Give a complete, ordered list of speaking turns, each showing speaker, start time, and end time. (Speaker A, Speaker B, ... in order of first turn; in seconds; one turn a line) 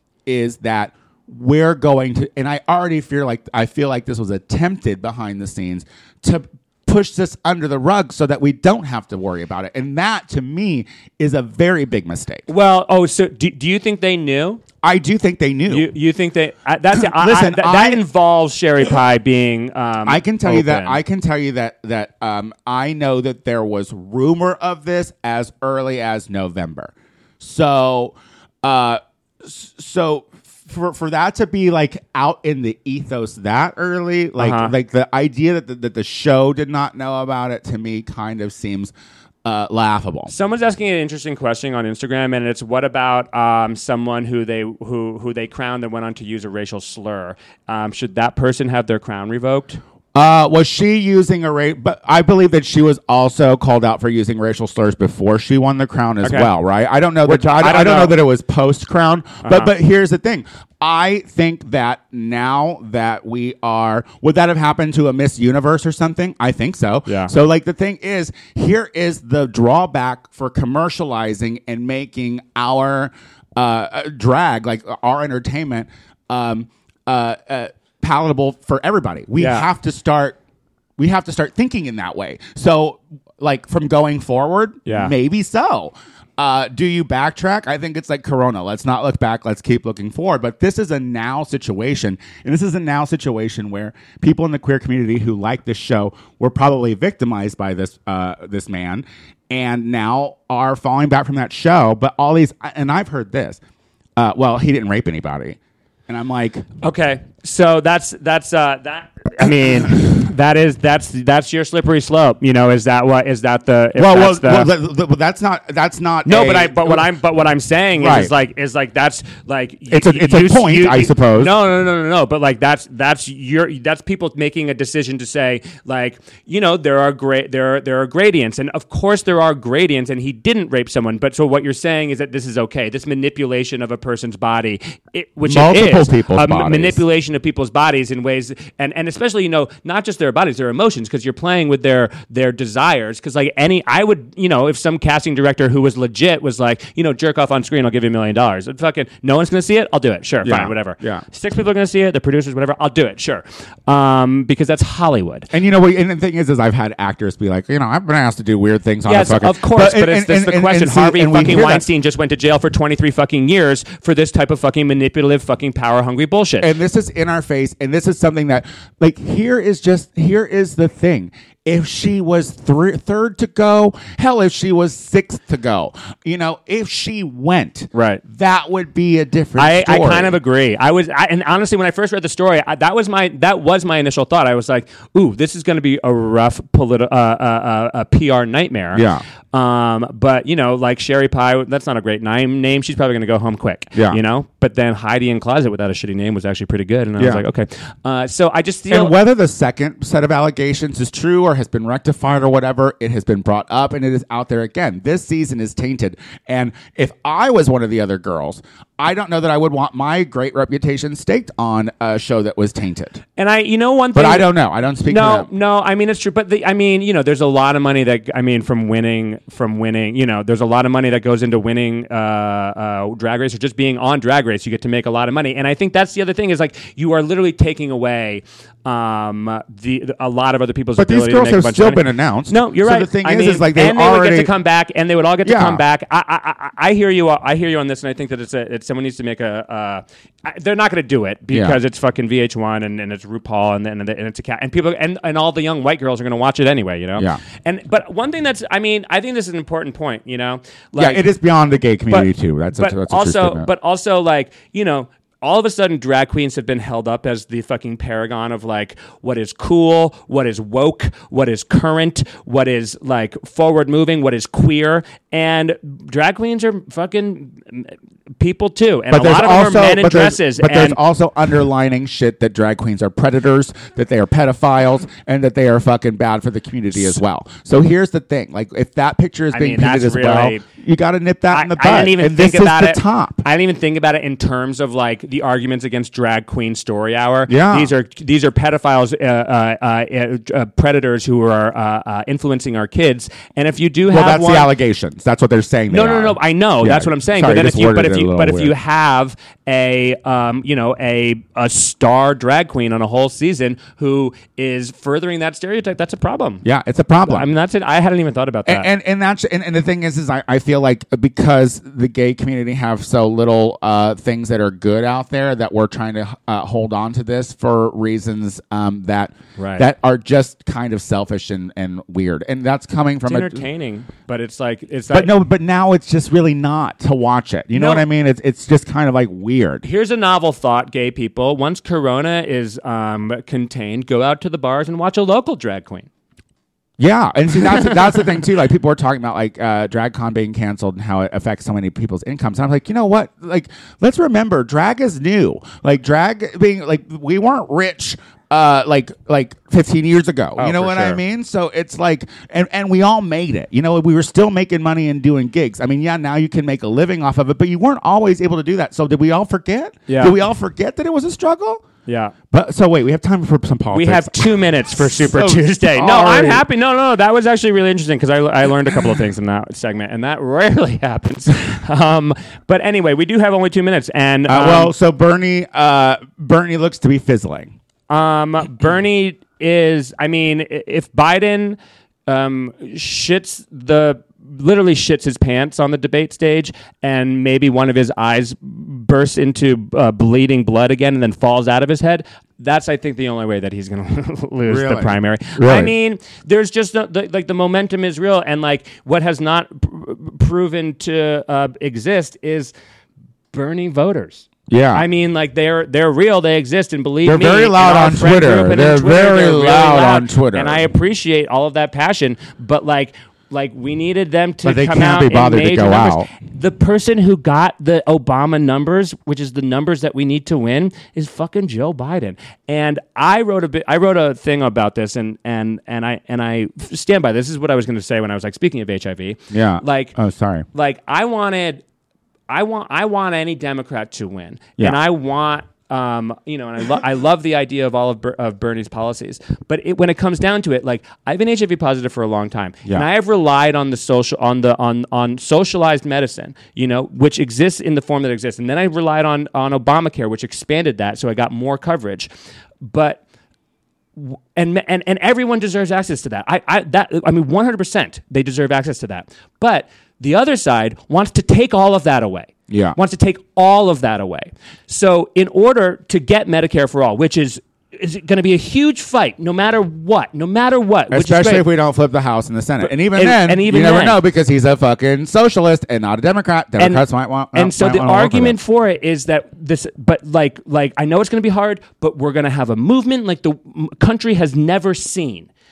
Speaker A: 0.3-12.5
Speaker B: 12.5-14.6
Speaker A: 14.8-15.9
Speaker B: 15.7-21.0
Speaker A: 16.9-18.0
Speaker A: 20.1-38.9
Speaker B: 34.4-34.7
Speaker A: 39.5-40.3
Speaker B: 40.3-49.8
Speaker A: 50.1-80.4
Speaker B: 56.2-56.5
Speaker B: 57.2-58.2
Speaker B: 59.4-59.7
Speaker B: 79.4-79.7
Speaker A: 81.0-103.6
Speaker B: 84.9-85.1
Speaker A: 104.2-106.7
Speaker B: 106.8-114.7
Speaker A: 114.0-117.1
Speaker B: 116.2-155.5
Speaker A: 118.0-118.3
Speaker A: 119.9-121.5
Speaker A: 135.4-137.0
Speaker A: 150.4-151.2
Speaker A: 155.5-161.8
Speaker B: 159.1-166.7
Speaker A: 166.6-180.4
Speaker B: 177.9-178.2
Speaker B: 179.6-199.2
Speaker A: 188.9-189.2
Speaker A: 198.9-213.2
Speaker B: 213.4-214.5
Speaker A: 214.2-215.5
Speaker B: 215.1-251.3
Speaker A: 231.0-234.5
Speaker A: 235.4-235.8
Speaker A: 241.5-241.8
Speaker A: 251.0-253.7
Speaker B: 252.1-271.0
Speaker A: 269.1-283.4
Speaker B: 276.9-277.2
Speaker B: 279.5-280.6
Speaker B: 281.5-294.7
Speaker A: 287.5-287.9
Speaker A: 294.1-298.7
Speaker B: 295.9-306.6
Speaker A: 306.6-307.5
Speaker B: 307.2-308.9
Speaker A: 308.7-323.6
Speaker B: 319.6-319.9
Speaker B: 323.2-325.3
Speaker A: 325.1-329.9
Speaker B: 327.7-328.1
Speaker B: 329.8-336.1
Speaker A: 337.0-361.9
Speaker B: 337.6-338.4
Speaker B: 350.6-351.2
Speaker B: 360.1-360.4
Speaker B: 362.1-362.4
Speaker A: 362.5-366.6
Speaker B: 363.9-374.9
Speaker A: 374.5-377.7
Speaker B: 378.1-402.7
Speaker A: 394.7-395.9
Speaker B: 403.5-430.1
Speaker A: 404.7-405.1
Speaker A: 407.2-410.8
Speaker A: 414.6-416.3
Speaker A: 429.5-430.7
Speaker B: 430.7-431.8
Speaker B: 432.5-452.3
Speaker B: 452.8-453.2
Speaker B: 454.2-471.7
Speaker A: 462.7-463.0
Speaker A: 471.1-478.6
Speaker B: 472.8-474.2
Speaker B: 476.8-485.5